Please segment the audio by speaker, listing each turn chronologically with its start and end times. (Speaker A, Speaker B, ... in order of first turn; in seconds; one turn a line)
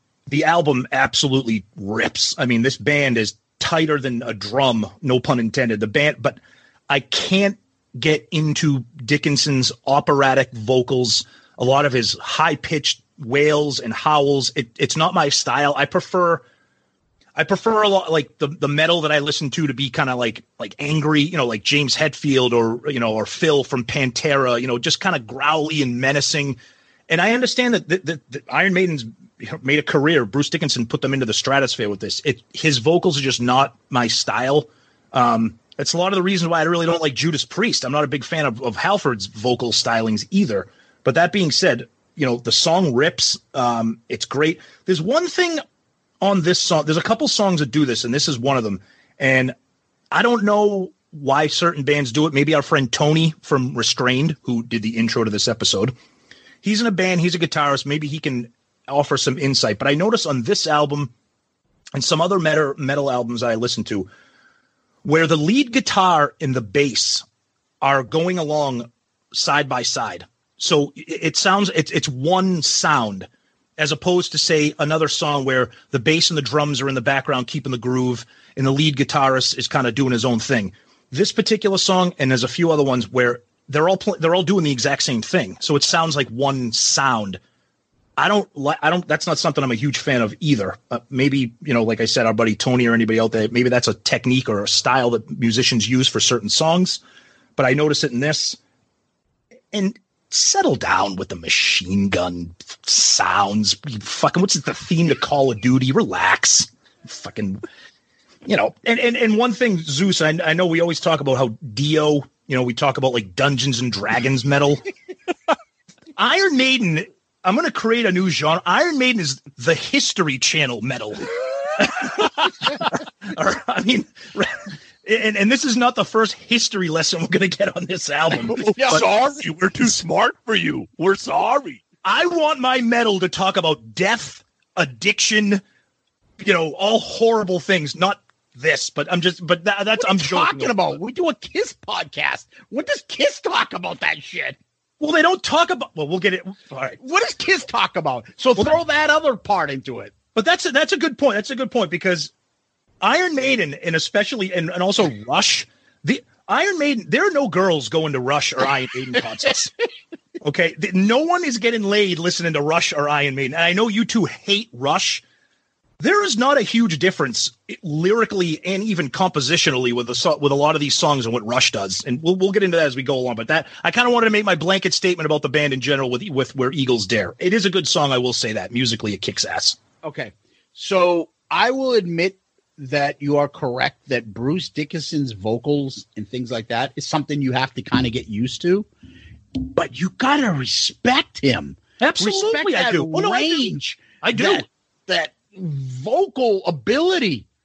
Speaker A: 0.3-16.4
Speaker A: 17.3-26.6
Speaker A: 27.1-45.6
Speaker A: 46.2-49.5
Speaker A: 50.1-55.9
Speaker A: 56.6-61.1
Speaker A: 61.9-64.1
Speaker A: 65.0-67.2
Speaker A: 67.8-87.4
Speaker A: 88.2-97.0
Speaker A: 97.6-98.6
Speaker A: 99.7-107.6
Speaker A: 108.5-114.8
Speaker A: 116.2-121.3
Speaker A: 121.8-129.0
Speaker B: 128.5-129.4
Speaker C: 128.9-131.8
Speaker A: 132.0-135.6
Speaker A: 136.4-141.0
Speaker B: 140.0-144.6
Speaker A: 145.0-147.0
Speaker B: 147.0-150.1
Speaker A: 150.3-152.3
Speaker A: 153.0-159.7
Speaker A: 160.4-165.2
Speaker A: 166.0-179.8
Speaker B: 180.0-188.9
Speaker B: 189.6-197.4
Speaker A: 192.0-193.7
Speaker A: 194.2-194.6